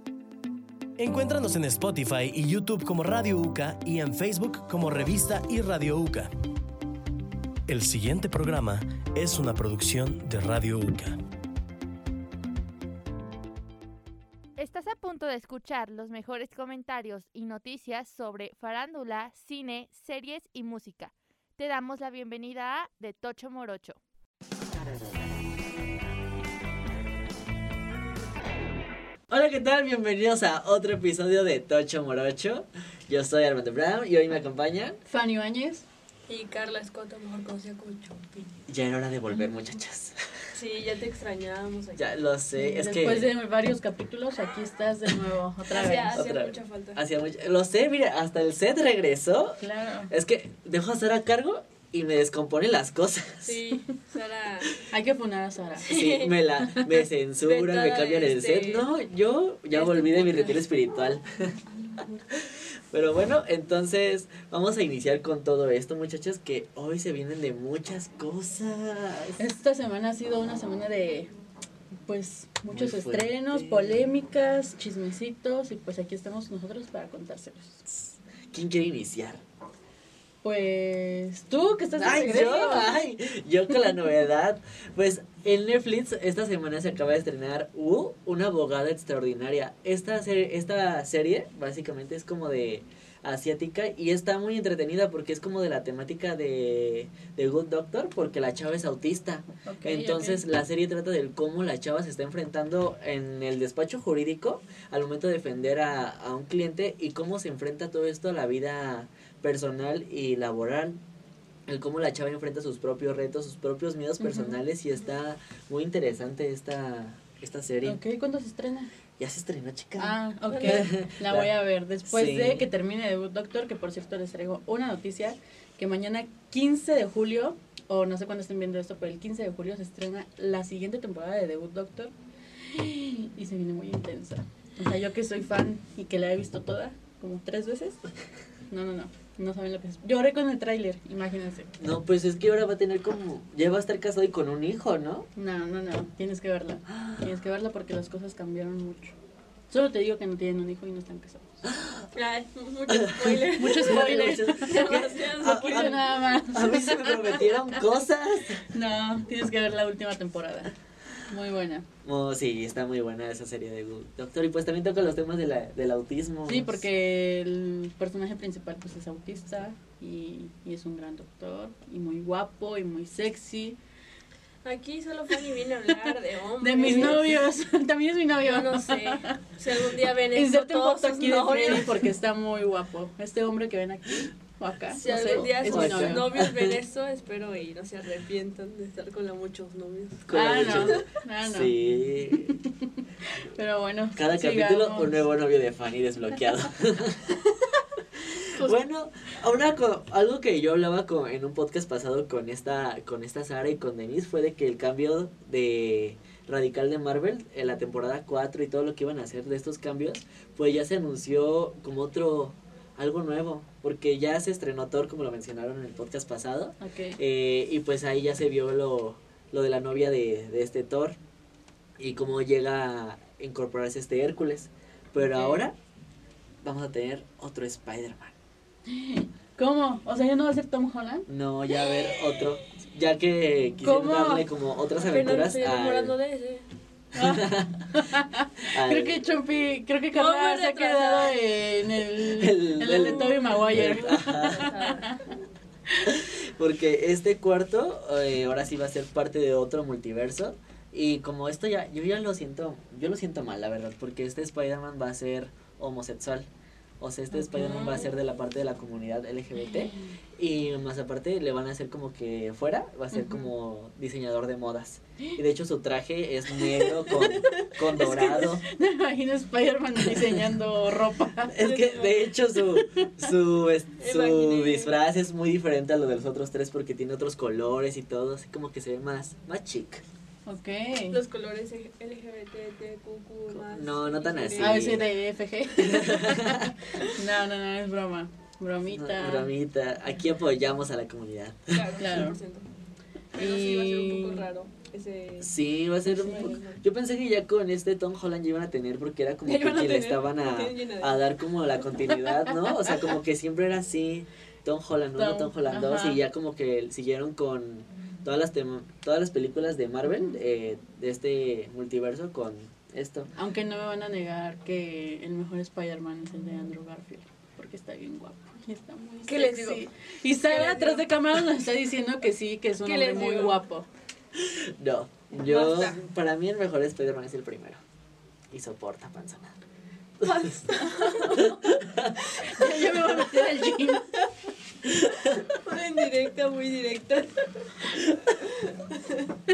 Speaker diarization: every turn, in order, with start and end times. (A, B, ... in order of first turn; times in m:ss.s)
0:01.0-0:06.3 A
0:07.7-0:11.1 A
0:14.6-0:24.0 B
0:29.3-0:35.0 C
0:35.1-0:35.8 D
0:36.3-0:38.5 E
0:38.7-0:40.2 C
0:40.5-0:42.1 E
0:42.0-0:43.4 C
0:42.6-0:46.2 D
0:45.7-0:47.0 E
0:46.1-0:53.6 C
0:49.6-0:50.1 D
0:53.4-0:54.8 E
0:54.9-0:55.9 D
0:55.8-0:56.3 E
0:55.9-1:01.5 C
0:56.6-0:56.9 D
0:57.4-0:58.9 E
0:59.7-1:00.6 E
1:02.9-1:09.4 C
1:09.4-1:11.3 D
1:12.1-1:17.8 D
1:12.7-1:14.0 C
1:17.9-1:19.4 C
1:20.4-1:23.0 D
1:22.0-1:51.0 C
1:22.0-1:22.6 E
1:39.6-1:40.4 D
1:51.7-1:58.0 C
1:54.2-1:54.6 D
1:57.8-1:58.9 D
1:59.2-2:01.5 C
2:00.0-2:12.1 D
2:00.5-2:00.9 E
2:02.1-2:02.7 C
2:12.7-2:18.0 D
2:18.7-2:21.7 D
2:21.8-2:25.3 C
2:25.4-2:29.2 D
2:29.7-2:31.6 D
2:32.1-2:36.1 E
2:33.1-2:38.7 C
2:33.6-2:37.5 D
2:38.7-2:40.7 D
2:41.3-2:41.9 D
2:42.0-2:46.8 C
2:46.4-2:53.8 D
2:54.6-2:57.4 E
2:56.6-2:59.4 D
2:58.4-3:02.1 E
3:00.3-3:06.3 D
3:04.9-3:11.1 E
3:05.3-3:06.7 C
3:10.3-3:12.6 C
3:10.3-3:12.7 D
3:13.3-3:15.2 D
3:14.2-3:17.4 C
3:18.6-3:41.2 C
3:36.8-3:37.2 D
3:42.0-3:45.8 C
3:45.2-3:45.7 D
3:46.6-3:48.3 C
3:48.9-3:51.3 D
3:51.3-3:56.2 C
3:53.8-3:54.5 D
3:55.0-3:56.6 E
3:57.1-4:05.1 D
3:57.2-3:57.8 C
3:58.7-3:59.2 C
4:00.1-4:01.4 E
4:02.2-4:04.7 C
4:02.9-4:05.1 E
4:06.1-4:16.5 C
4:17.0-4:28.6 C
4:17.3-4:18.1 D
4:19.6-4:20.1 D
4:23.1-4:23.4 D
4:26.7-4:27.2 D
4:28.0-4:31.6 D
4:31.5-4:40.0 C
4:31.6-4:32.3 E
4:32.6-4:33.1 D
4:34.0-4:35.0 E
4:40.5-4:41.2 D
4:41.1-4:45.0 E
4:43.5-4:45.1 C
4:44.6-4:49.5 D
4:45.8-4:46.7 C
4:48.9-4:52.3 C
4:51.7-4:52.7 E
4:52.0-4:52.4 D
4:53.4-4:55.5 E
4:53.4-4:54.5 D
4:55.4-5:13.3 C
4:56.1-4:56.6 D
4:56.3-4:56.8 E
4:59.4-5:01.3 E
5:05.2-5:06.2 D
5:10.1-5:10.4 D
5:13.4-5:23.9 D
5:19.3-5:21.1 E
5:22.8-5:23.6 E
5:24.4-5:27.8 C
5:25.4-5:26.1 E
5:28.5-5:29.6 C
5:30.2-5:31.7 E
5:31.8-5:32.1 C
5:32.3-5:34.1 D
5:32.9-5:33.3 C
5:34.9-5:35.1 C
5:35.3-5:37.7 E
5:38.4-5:39.3 E